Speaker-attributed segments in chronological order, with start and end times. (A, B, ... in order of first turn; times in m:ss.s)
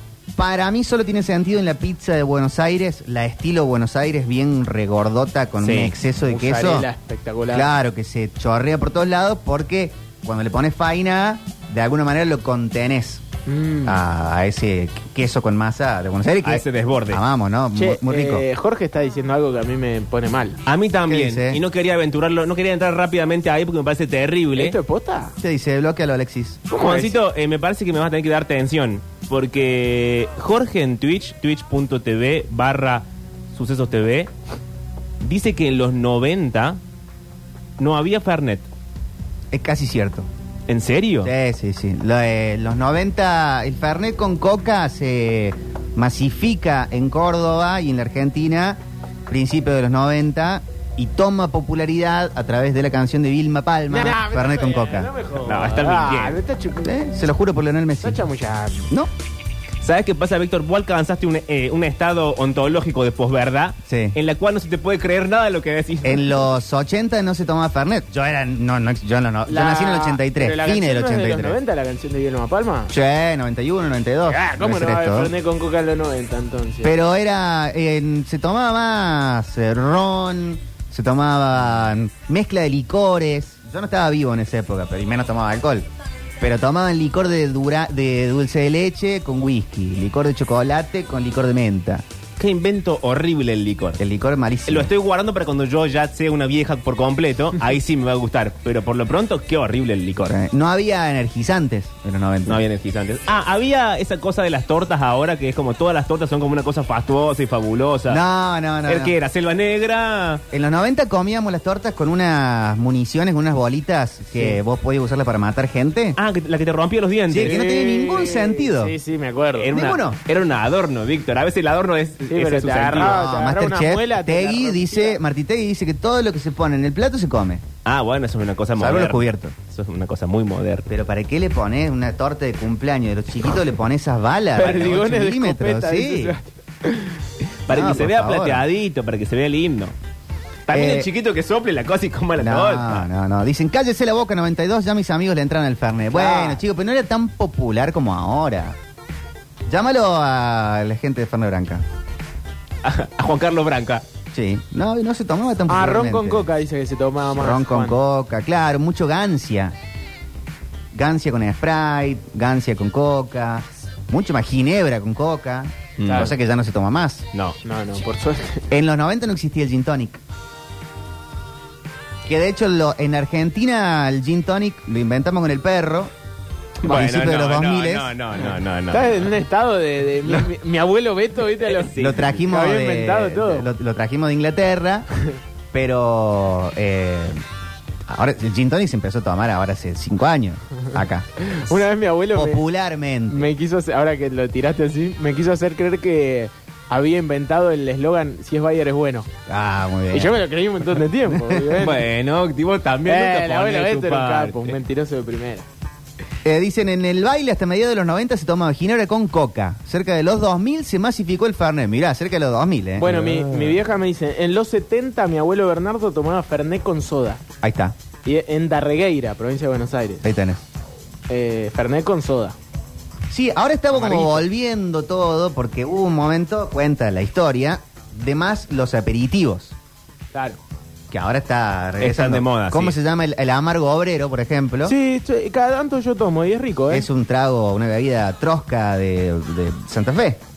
0:00.4-0:06.9 A
0:05.6-0:05.9 B
0:06.2-0:07.7 C
0:07.5-0:13.2 A
0:13.5-0:14.0 C
0:13.8-0:18.5 A
0:16.4-0:17.2 B
0:17.7-0:20.6 C
0:20.7-0:24.8 B
0:21.1-0:21.6 A
0:24.6-0:25.4 C
0:25.4-0:26.6 A
0:26.7-0:27.2 C
0:26.8-0:34.3 B
0:35.2-0:36.8 B
0:37.8-0:38.7 B
0:39.5-0:40.3 A
0:40.7-0:41.3 B
0:41.2-0:55.1 A
0:53.9-0:57.0 C
0:55.4-0:56.4 B
0:56.8-0:58.2 A
0:58.0-0:58.9 C
0:59.8-1:06.4 B
1:03.9-1:04.2 A
1:06.0-1:11.6 A
1:09.4-1:12.9 C
1:12.9-1:15.3 A
1:14.3-1:17.0 C
1:16.8-1:25.9 A
1:26.4-1:32.0 A
1:32.4-1:34.0 B
1:34.0-1:34.9 A
1:34.7-1:40.4 B
1:40.2-1:42.6 A
1:42.5-1:48.2 B
1:48.1-1:49.1 A
1:48.9-1:50.4 B
1:50.5-1:56.2 A
1:56.2-1:57.6 B
1:57.3-1:59.0 A
1:57.4-1:59.7 C
1:59.6-2:03.2 B
1:59.7-2:00.2 A
2:02.3-2:05.2 C
2:02.9-2:07.6 A
2:07.8-2:10.9 B
2:08.8-2:09.6 A
2:10.9-2:16.4 A
2:14.6-2:17.2 C
2:17.7-2:19.9 B
2:17.7-2:18.6 A
2:20.7-2:23.1 B
2:20.7-2:21.1 A
2:22.4-2:28.8 A
2:26.1-2:26.6 C
2:29.7-2:31.8 A
2:32.8-2:34.0 B
2:34.3-2:36.5 A
2:35.7-2:38.0 C
2:37.3-2:39.8 A
2:40.9-2:47.2 A
2:46.0-2:46.3 B
2:46.0-2:46.3 C
2:47.6-2:48.6 C
2:48.7-2:50.2 A
2:52.3-2:56.1 A
2:56.8-2:58.1 A
2:56.8-2:59.3 B
2:58.9-3:03.7 C
3:01.6-3:02.4 B
3:02.0-3:05.1 A
3:05.7-3:07.4 A
3:08.1-3:11.3 A
3:11.4-3:12.6 C
3:12.3-3:13.5 A
3:13.3-3:19.3 C
3:19.5-3:20.4 A
3:20.1-3:22.1 C
3:21.3-3:21.8 A
3:21.8-3:24.8 B
3:23.1-3:25.7 C
3:26.4-3:33.2 A
3:33.0-3:37.4 C
3:33.1-3:33.8 B
3:37.6-3:38.0 A
3:38.2-3:40.3 C
3:40.2-3:40.6 A
3:41.3-3:42.6 C
3:43.3-3:49.8 A
3:44.0-3:44.4 C
3:50.3-3:50.6 C
3:51.1-3:55.0 A
3:52.0-3:53.0 B
3:54.8-3:57.1 C
3:56.9-4:00.4 A